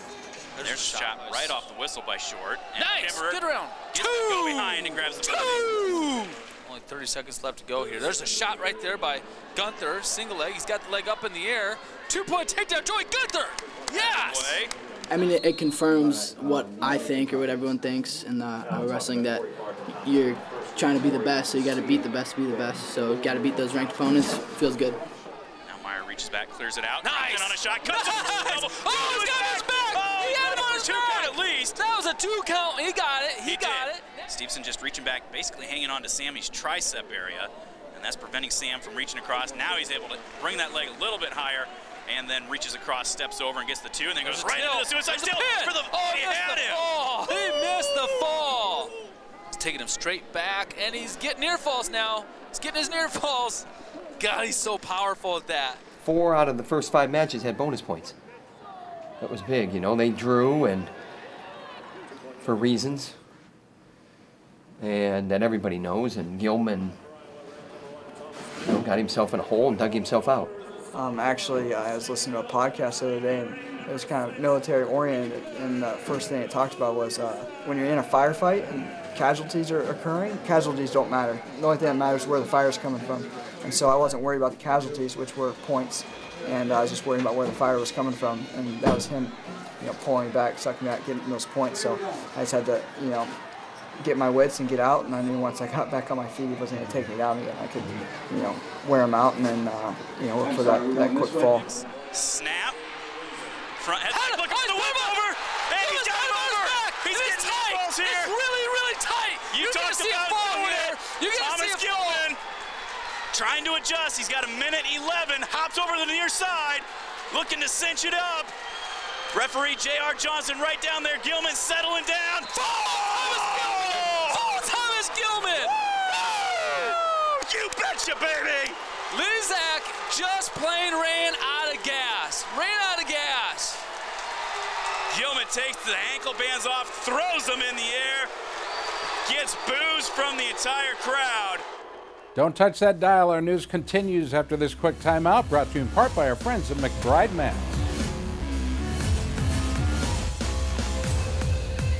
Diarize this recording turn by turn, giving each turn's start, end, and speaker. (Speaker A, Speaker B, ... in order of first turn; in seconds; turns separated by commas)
Speaker A: 0.6-1.6, Speaker B: 0.6-6.0, Speaker A: 2.8-14.7, Speaker B: 13.9-14.7, Speaker C: 15.1-25.0, Speaker B: 25.7-31.8, Speaker A: 27.0-34.1, Speaker B: 33.4-46.8, Speaker A: 44.2-48.9, Speaker A: 49.5-53.7, Speaker A: 54.2-55.8, Speaker D: 56.0-58.1, Speaker D: 59.2-60.9, Speaker D: 62.4-63.2, Speaker D: 64.8-67.0, Speaker D: 68.7-70.5, Speaker E: 70.9-93.4, Speaker E: 94.0-101.7, Speaker B: 101.7-102.8, Speaker B: 103.8-108.3, Speaker A: 104.1-112.3, Speaker B: 109.5-112.4, Speaker B: 113.3-118.5, Speaker B: 119.3-124.6, Speaker A: 122.6-125.7, Speaker B: 126.1-128.8, Speaker A: 126.7-127.0, Speaker A: 129.1-133.8, Speaker B: 135.1-138.3, Speaker B: 139.2-141.6, Speaker F: 142.3-147.9